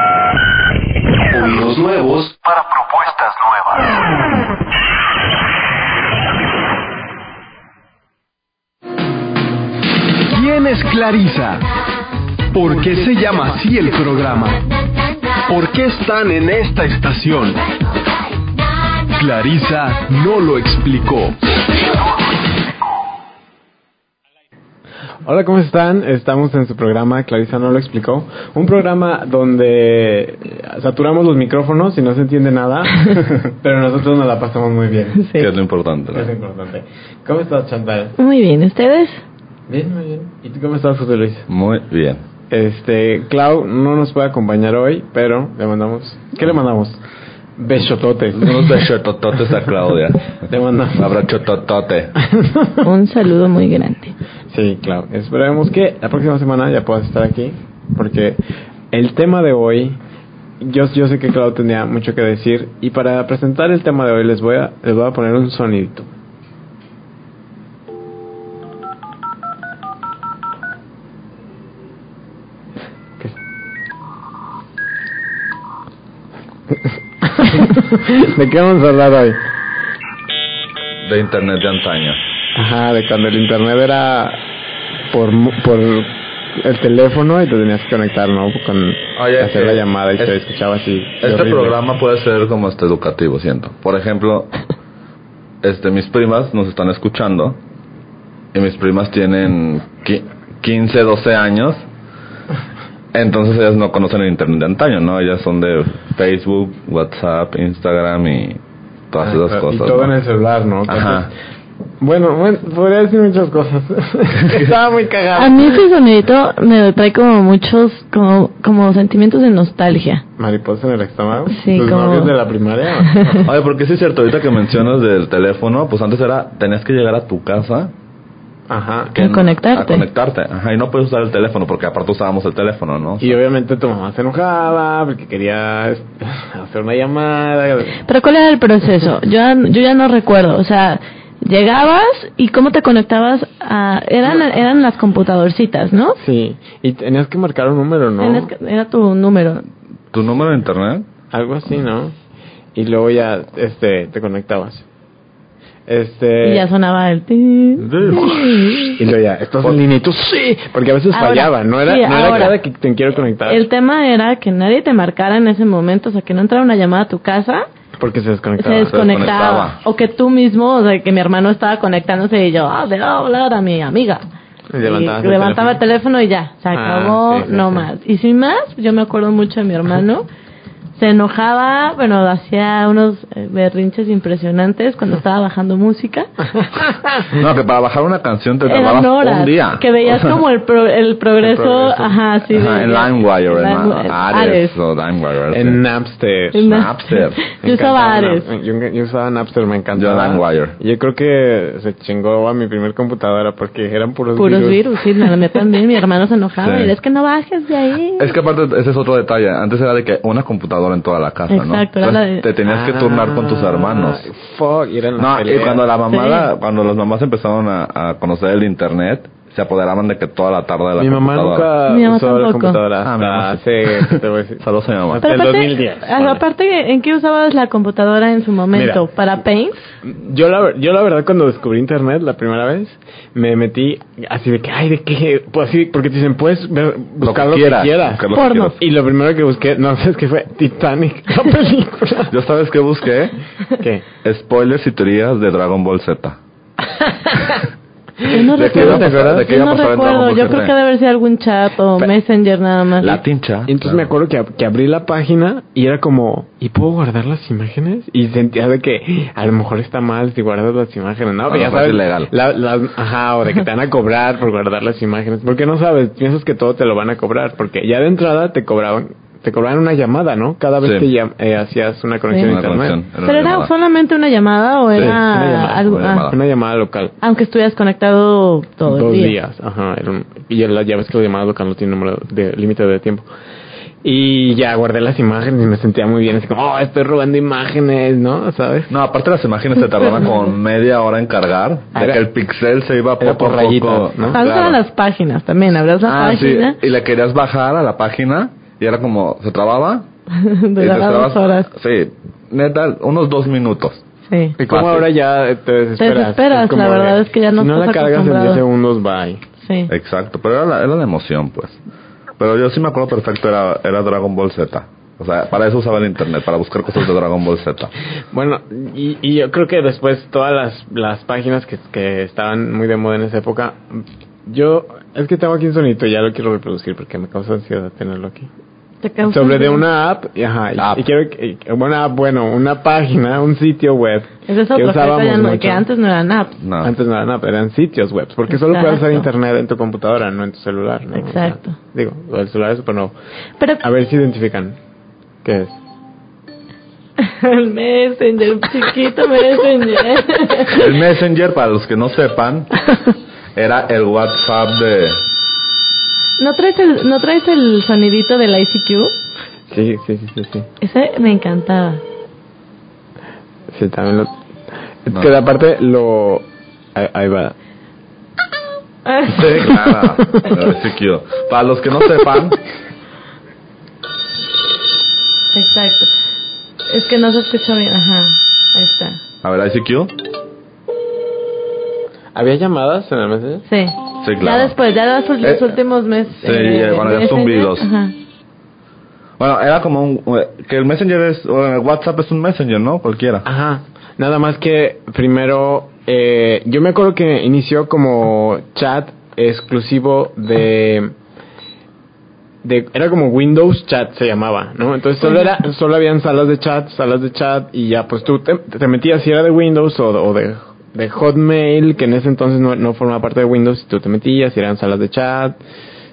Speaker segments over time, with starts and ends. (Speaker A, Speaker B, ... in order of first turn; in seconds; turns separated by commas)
Speaker A: 1.3-4.0, Speaker A: 10.3-11.7, Speaker A: 12.5-14.6, Speaker A: 15.5-17.6, Speaker A: 19.1-21.4, Speaker B: 25.2-35.2, Speaker C: 35.2-35.5, Speaker D: 35.4-36.3, Speaker B: 36.1-38.1, Speaker C: 38.2-39.2, Speaker B: 39.7-41.5, Speaker D: 41.5-42.2, Speaker B: 42.5-47.0, Speaker B: 47.6-49.5, Speaker D: 48.3-50.4, Speaker B: 50.5-51.2, Speaker D: 50.9-52.1, Speaker B: 52.2-52.8, Speaker C: 52.8-54.1, Speaker B: 54.5-58.4, Speaker B: 58.9-60.0, Speaker B: 60.6-66.1, Speaker B: 76.8-79.4, Speaker D: 81.0-82.2, Speaker B: 82.5-84.4, Speaker B: 85.1-91.8, Speaker D: 89.2-90.4, Speaker D: 91.2-94.5, Speaker D: 95.6-97.6, Speaker D: 98.5-101.8, Speaker D: 103.1-110.1, Speaker B: 109.2-111.3, Speaker D: 110.9-111.3, Speaker B: 112.0-115.8, Speaker D: 114.4-114.7, Speaker C: 115.3-120.2, Speaker B: 120.4-123.5, Speaker C: 121.5-122.3, Speaker C: 123.1-123.4, Speaker D: 123.4-127.9, Speaker B: 128.7-129.2, Speaker C: 129.1-130.0, Speaker D: 129.1-133.4, Speaker B: 133.2-138.0, Speaker C: 138.1-146.2, Speaker B: 146.2-148.5, Speaker C: 148.2-149.6, Speaker D: 150.1-151.1, Speaker B: 151.3-152.1, Speaker B: 152.7-154.8, Speaker B: 155.9-156.7, Speaker C: 156.4-159.0, Speaker D: 157.8-158.6, Speaker B: 159.0-163.6, Speaker C: 161.1-162.6, Speaker C: 163.4-167.7, Speaker B: 168.0-169.2, Speaker C: 168.6-174.2, Speaker D: 168.7-169.8, Speaker B: 174.7-175.8, Speaker C: 174.8-180.2, Speaker B: 176.7-177.9, Speaker C: 180.9-186.3, Speaker D: 187.3-190.4, Speaker C: 188.7-194.7, Speaker B: 191.4-192.2, Speaker D: 192.5-195.8, Speaker B: 195.5-196.7, Speaker C: 196.5-198.5, Speaker D: 196.6-197.4, Speaker B: 197.6-205.3, Speaker D: 199.9-200.8, Speaker C: 204.3-208.3, Speaker D: 206.6-206.9, Speaker D: 208.2-214.3, Speaker C: 211.5-212.5, Speaker B: 212.6-215.8, Speaker D: 215.2-221.7, Speaker C: 216.1-216.5, Speaker B: 221.0-226.4, Speaker C: 221.9-222.8, Speaker D: 223.0-225.2, Speaker C: 225.2-229.8, Speaker B: 228.7-229.0, Speaker B: 230.0-242.3, Speaker D: 237.2-238.8, Speaker C: 238.3-238.7, Speaker D: 242.3-243.3, Speaker B: 243.8-244.0, Speaker D: 244.2-246.4, Speaker B: 248.2-249.5, Speaker C: 248.2-253.2, Speaker D: 248.5-250.7, Speaker D: 253.0-254.1, Speaker B: 253.7-273.0, Speaker D: 261.5-262.3, Speaker D: 270.8-271.1, Speaker C: 272.3-272.5, Speaker D: 272.4-273.7, Speaker C: 273.2-276.3, Speaker B: 275.0-277.1, Speaker D: 275.8-276.4, Speaker C: 277.2-279.4, Speaker B: 278.9-283.3, Speaker B: 284.0-288.9, Speaker D: 288.9-294.8, Speaker C: 290.2-290.5, Speaker B: 291.9-292.2, Speaker B: 293.2-294.4, Speaker C: 294.3-296.8, Speaker D: 296.1-300.1, Speaker C: 300.3-301.7, Speaker D: 300.8-304.0, Speaker C: 304.3-304.6, Speaker B: 304.6-309.4, Speaker D: 304.7-305.1, Speaker C: 306.0-308.6, Speaker C: 309.6-309.9, Speaker D: 309.9-311.8, Speaker D: 312.4-317.9, Speaker B: 318.3-328.5, Speaker C: 329.0-329.9, Speaker B: 329.3-335.9, Speaker D: 330.8-331.0, Speaker C: 334.5-336.6, Speaker D: 336.6-336.9, Speaker B: 336.8-343.1, Speaker C: 338.5-339.3, Speaker C: 341.1-341.8, Speaker B: 343.8-344.8, Speaker B: 345.4-345.8, Speaker C: 347.2-350.9, Speaker D: 350.7-352.7, Speaker D: 353.5-355.2, Speaker C: 356.4-359.1, Speaker B: 359.7-360.7, Speaker C: 360.8-362.0, Speaker B: 363.7-364.3, Speaker B: 365.0-367.5, Speaker C: 369.1-369.7, Speaker D: 369.3-372.6, Speaker C: 375.5-376.1, Speaker C: 376.9-379.2, Speaker D: 379.4-380.1, Speaker B: 382.3-383.6, Speaker C: 383.7-388.1, Speaker D: 384.2-384.7, Speaker D: 385.4-385.7, Speaker D: 386.4-387.9, Speaker D: 389.4-393.4, Speaker B: 393.4-401.1, Speaker B: 402.6-415.6